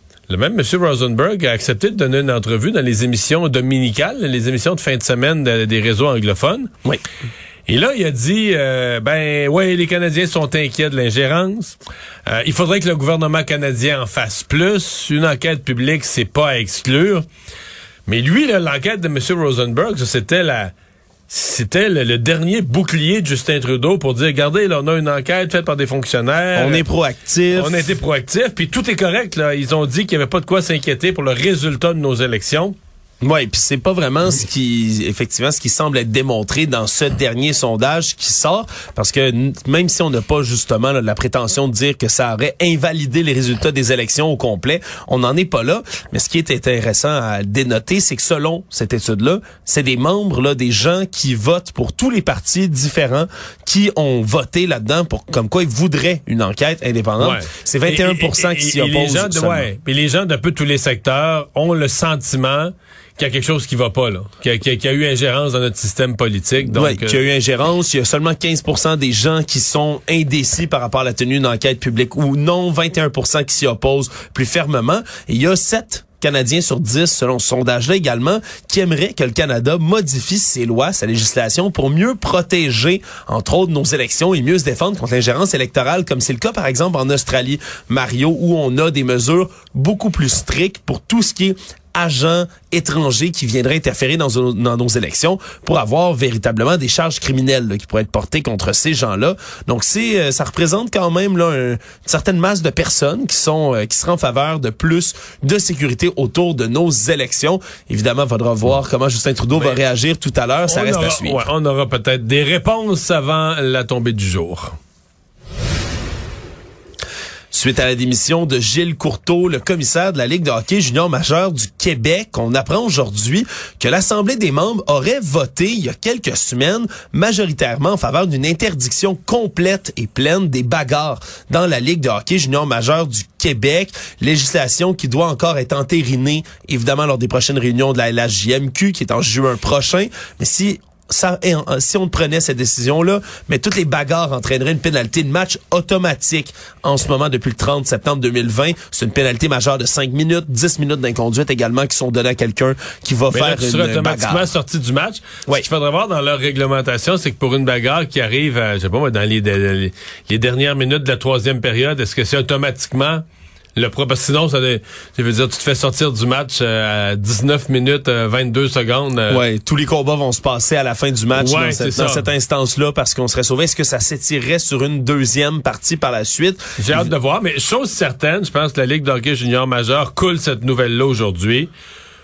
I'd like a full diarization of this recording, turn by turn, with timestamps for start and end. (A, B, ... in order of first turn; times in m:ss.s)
0:00.3-0:06.7 A
0:07.7-0:17.2 A
0:18.1-0:20.7 A
0:21.3-0:26.8 A
0:26.6-0:27.9 B
0:27.5-0:32.8 A
0:33.2-0:59.7 B
0:57.2-1:07.2 A
1:06.7-1:51.4 B
1:50.7-1:54.8 A
1:57.5-2:34.4 B
2:33.3-2:43.2 A
2:43.8-2:49.4 A
2:49.3-2:57.1 B
2:51.3-2:52.3 A
2:56.8-3:01.7 A